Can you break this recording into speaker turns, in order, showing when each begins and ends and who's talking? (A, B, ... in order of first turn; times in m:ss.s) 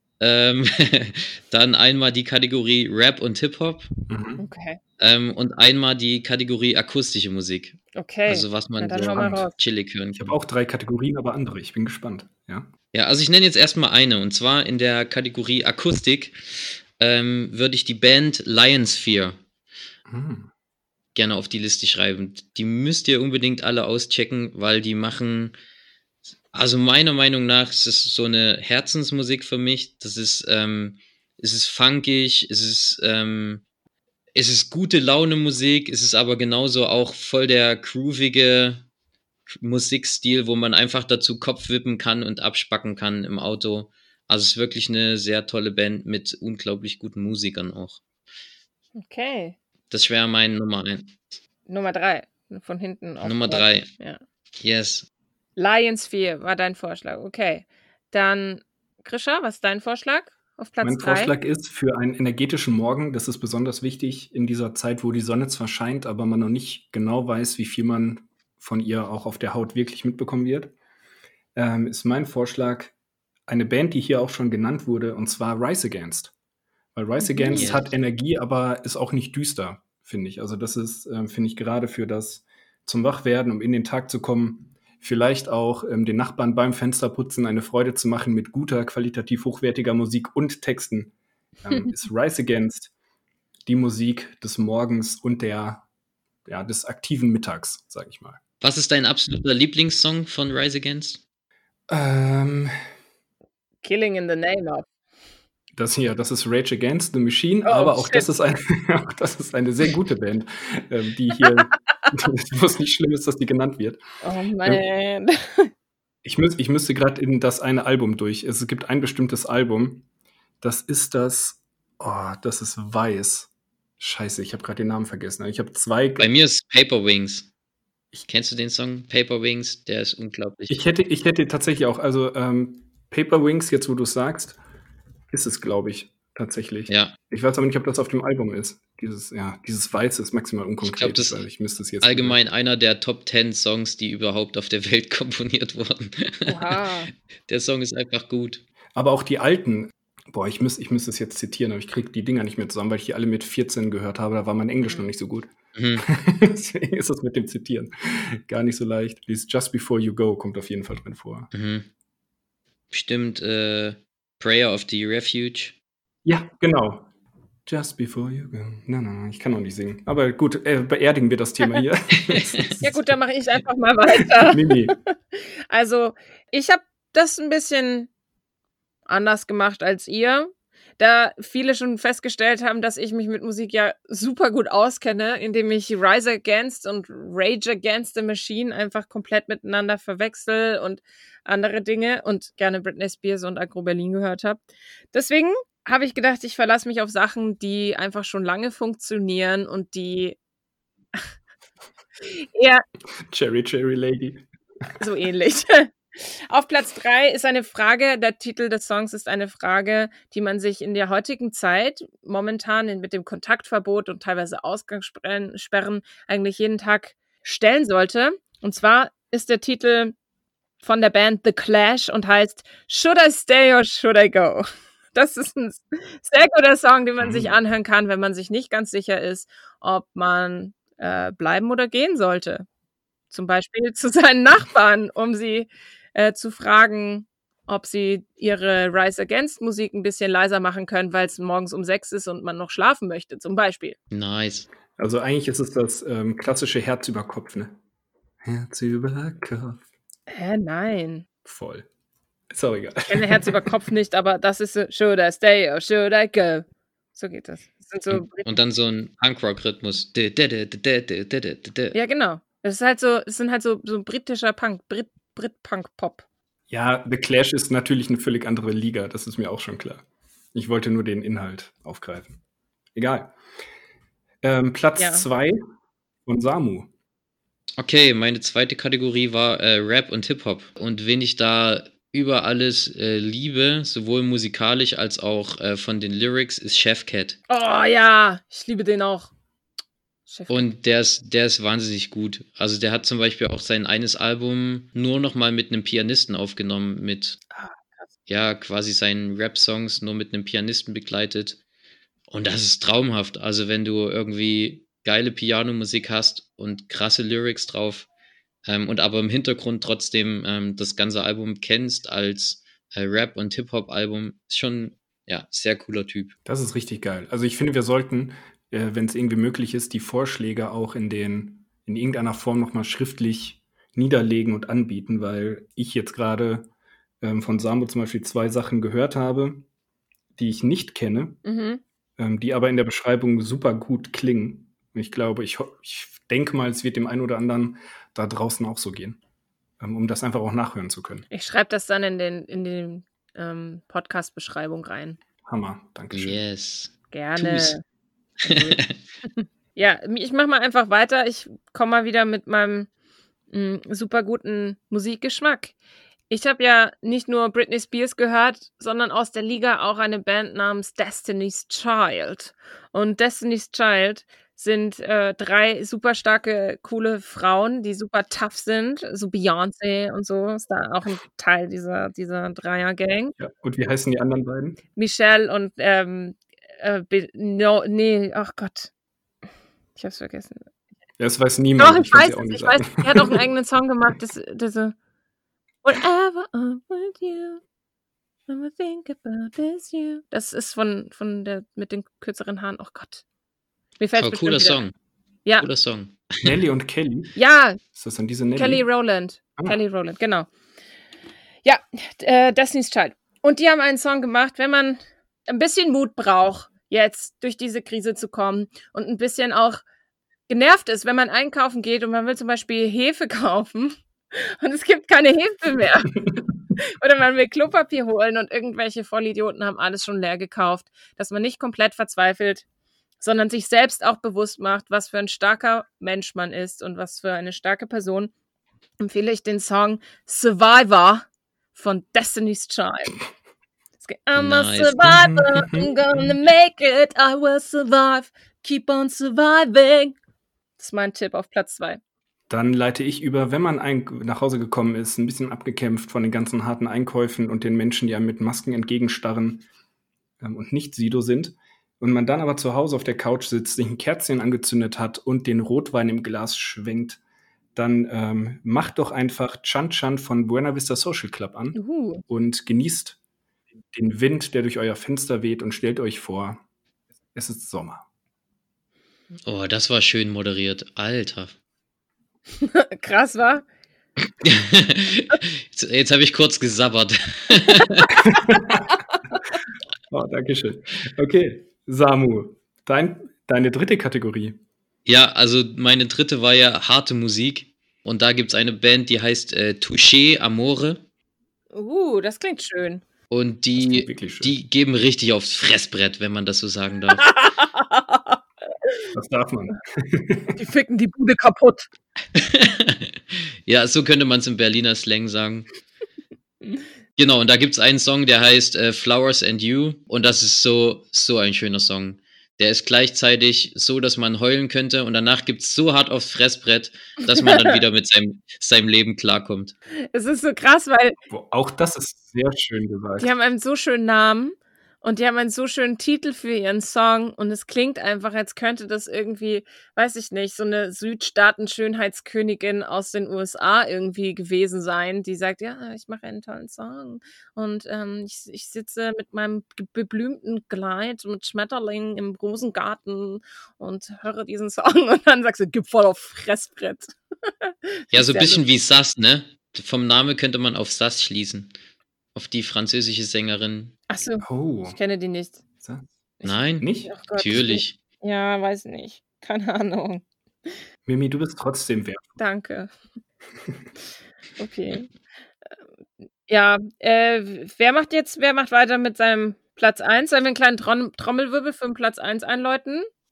0:00.2-0:03.9 A
0:04.1-0:04.4 B
0:04.4-0:04.8 C
0:05.0-0:10.4 A
0:08.0-0:09.6 C
0:09.0-0:09.5 B
0:10.2-0:12.7 B
0:12.9-0:19.4 A
0:20.1-0:20.5 B
0:21.2-0:25.6 A
0:26.5-0:33.6 A
0:34.4-0:38.8 A
0:39.6-0:48.0 A
0:49.0-0:49.6 C
0:49.9-0:51.4 A
0:51.7-0:54.2 C
0:53.2-0:53.9 A
0:54.6-0:55.1 A
0:55.6-1:01.3 C
1:00.8-1:10.7 B
1:11.6-1:12.9 B
1:13.5-1:16.3 B
1:17.0-1:32.9 B
1:17.2-1:17.8 C
1:17.6-1:17.9 A
1:33.7-1:35.9 B
1:36.5-1:38.4 B
1:38.6-1:41.2 A
1:41.9-1:42.7 B
1:43.8-1:44.9 C
1:45.8-1:54.0 B
1:47.6-1:48.3 C
1:54.2-1:55.7 C
1:56.2-2:00.0 B
2:00.6-2:06.3 B
2:06.2-2:07.5 A
2:08.2-2:10.8 A
2:10.7-2:14.6 B
2:15.3-2:22.4 B
2:16.9-2:17.2 A
2:20.8-2:21.4 A
2:22.0-2:26.8 A
2:26.5-2:27.1 C
2:27.5-2:28.6 A
2:29.0-2:41.5 B
2:35.8-2:36.0 A
2:41.5-2:41.9 A
2:42.9-2:45.8 A
2:46.2-2:47.1 B
2:47.7-2:53.0 B
2:52.3-2:52.8 A
2:52.8-2:58.1 C
2:54.3-2:55.0 B
2:59.1-3:20.4 C
3:22.2-3:22.8 C
3:23.2-3:24.9 B
3:25.0-3:40.1 C
3:40.8-3:52.7 C
3:47.2-3:47.6 B
3:53.3-4:04.0 C
4:04.1-4:04.7 A
4:05.0-4:07.8 B
4:08.4-4:09.8 B
4:10.3-4:11.3 C
4:11.5-4:11.9 B
4:12.5-4:13.7 B
4:13.1-4:18.6 C
4:18.1-4:22.0 A
4:21.9-4:26.2 C
4:26.7-4:32.4 B
4:33.0-4:33.3 B
4:34.4-4:35.6 B
4:35.0-4:35.3 C
4:36.3-4:36.9 B
4:37.8-4:47.4 A
4:47.5-4:49.3 C
4:50.3-4:50.7 C
4:50.5-4:57.4 A
4:57.5-4:58.1 C
4:58.3-5:01.6 A
5:02.3-5:08.1 A
5:08.7-5:16.3 A
5:16.5-5:26.7 B
5:27.2-5:29.7 B
5:30.4-5:31.4 B
5:31.4-5:31.8 C
5:32.2-5:39.2 B
5:39.8-5:41.3 B
5:41.3-5:45.2 C
5:45.5-5:46.4 B
5:46.1-5:47.8 A
5:47.1-5:47.8 C
5:48.4-5:48.8 C
5:48.5-5:49.0 A
5:49.4-5:52.9 C
5:53.5-5:55.7 C
5:56.3-6:13.4 C
6:13.4-6:14.8 B
6:15.0-6:18.9 C
6:20.0-6:20.7 C
6:21.2-6:23.4 B
6:21.8-6:25.0 C
6:25.8-6:27.6 C
6:28.5-6:33.2 C
6:34.0-6:34.8 C
6:34.2-6:34.9 A
6:35.6-6:36.5 A
6:36.4-6:37.4 B
6:37.4-6:37.8 C
6:37.9-6:38.9 B
6:38.6-6:40.5 C
6:41.6-6:49.8 C
6:50.5-6:56.2 C
6:56.8-7:02.6 C
7:03.2-7:08.3 C
7:09.0-7:13.2 C
7:14.0-7:20.2 C
7:14.4-7:15.1 A
7:15.0-7:16.3 B
7:20.8-7:22.0 C
7:22.5-7:29.7 B
7:30.4-7:37.2 B
7:37.8-7:43.2 B
7:41.8-7:42.2 C
7:43.9-7:46.6 B
7:47.4-7:48.0 B
7:49.4-7:51.6 A
7:52.6-7:53.7 C
7:54.4-7:58.1 A
7:58.2-7:58.9 B
8:00.1-8:04.6 B
8:05.1-8:11.0 A
8:11.7-8:13.0 C
8:13.3-8:17.4 A
8:13.8-8:14.6 B
8:17.2-8:18.4 C
8:19.1-8:20.6 B
8:20.6-8:21.9 C
8:22.4-8:25.7 A
8:27.2-8:39.7 A
8:40.1-8:41.2 C
8:41.3-8:43.3 B
8:43.2-9:08.6 C
9:08.1-9:11.7 A
9:12.4-9:14.0 A
9:14.1-9:15.6 C
9:14.4-9:15.0 B
9:15.8-9:16.1 B
9:16.4-9:20.8 C
9:16.4-9:18.0 A
9:16.8-9:17.1 B
9:21.1-9:22.4 B
9:22.4-9:22.9 C
9:24.6-9:25.1 C
9:26.5-9:33.1 C